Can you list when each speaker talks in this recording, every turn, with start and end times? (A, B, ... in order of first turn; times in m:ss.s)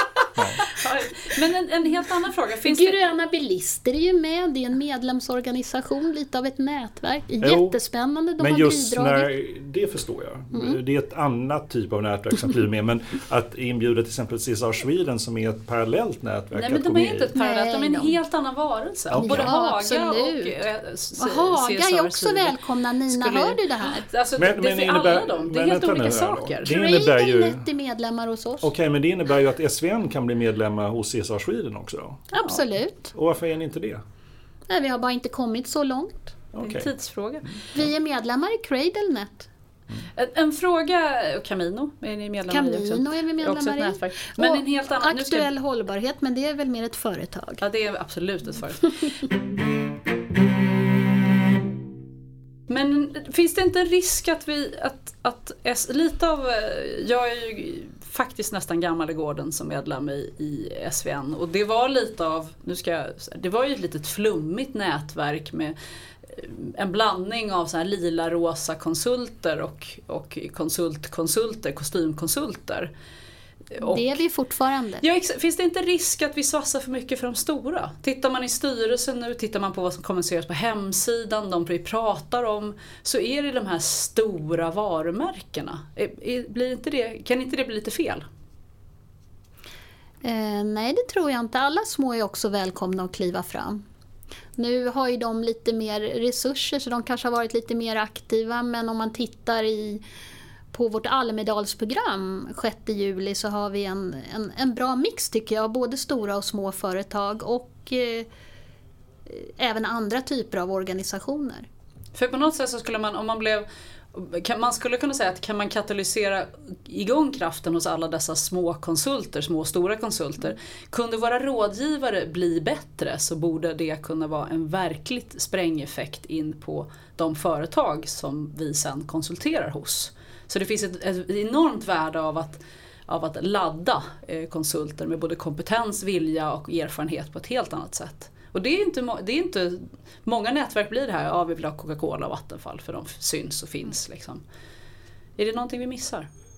0:00.4-0:00.8 A
0:00.6-0:03.1 B
0:02.7-0:09.3 C
0:07.4-0:07.8 A
0:08.4-0:17.3 A
0:10.5-0:10.8 C
0:16.5-0:26.7 B
0:17.4-0:18.2 C
0:19.1-0:19.5 A
0:19.2-0:20.6 C
0:21.2-0:24.1 C
0:24.4-0:27.6 A
0:26.6-0:28.7 C
0:28.6-0:32.3 A
0:32.3-0:33.1 C
0:33.1-0:34.0 A
0:34.7-0:36.3 C
0:36.5-0:36.9 A
0:36.6-0:37.6 B
0:37.4-0:37.9 A
0:37.7-0:39.5 C
0:40.2-0:45.5 B
0:42.5-0:47.6 C
0:47.6-0:49.1 B
0:52.7-1:05.8 B
1:06.3-1:12.9 B
1:13.8-1:14.2 B
1:13.8-1:15.0 C
1:15.0-1:28.3 B
1:30.2-1:33.8 C
1:34.6-1:40.0 C
1:40.7-1:48.3 C
1:49.3-1:51.7 C
1:52.1-2:24.4 B
2:25.4-2:26.3 B